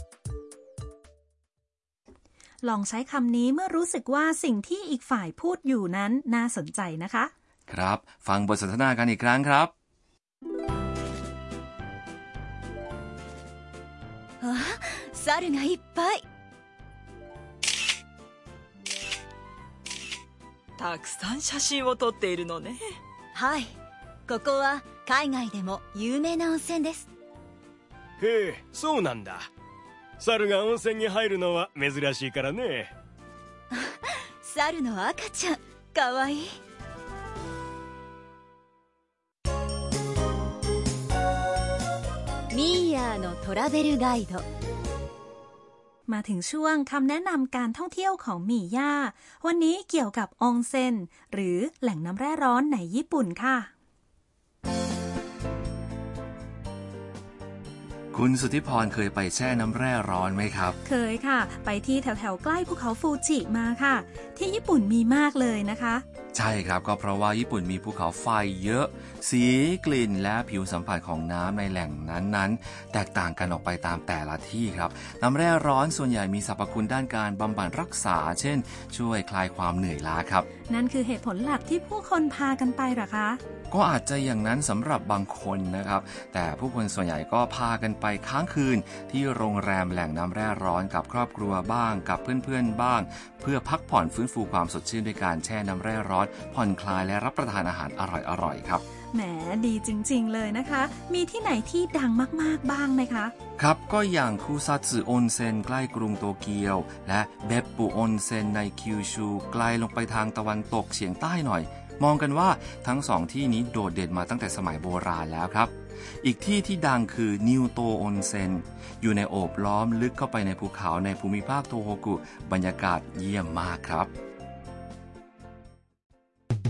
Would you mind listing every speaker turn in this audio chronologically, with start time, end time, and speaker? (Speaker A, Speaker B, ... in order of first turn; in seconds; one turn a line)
Speaker A: 2.6-7.3
Speaker B: 7.7-9.7
Speaker C: 14.4-16.2
Speaker D: 20.8-22.8
Speaker C: 23.3-23.7
Speaker C: 24.3-27.1
Speaker E: 28.2-29.5
Speaker E: 30.2-32.9
Speaker C: 33.7-36.6
Speaker C: 42.5-44.5
Speaker A: 46.1-53.7
Speaker B: 58.1-60.8
Speaker A: 60.8-66.0
Speaker B: 66.3-80.5
Speaker A: 80.7-83.4
Speaker B: 83.7-98.8
Speaker A: 99.1-103.3
Speaker B: 103.6-124.1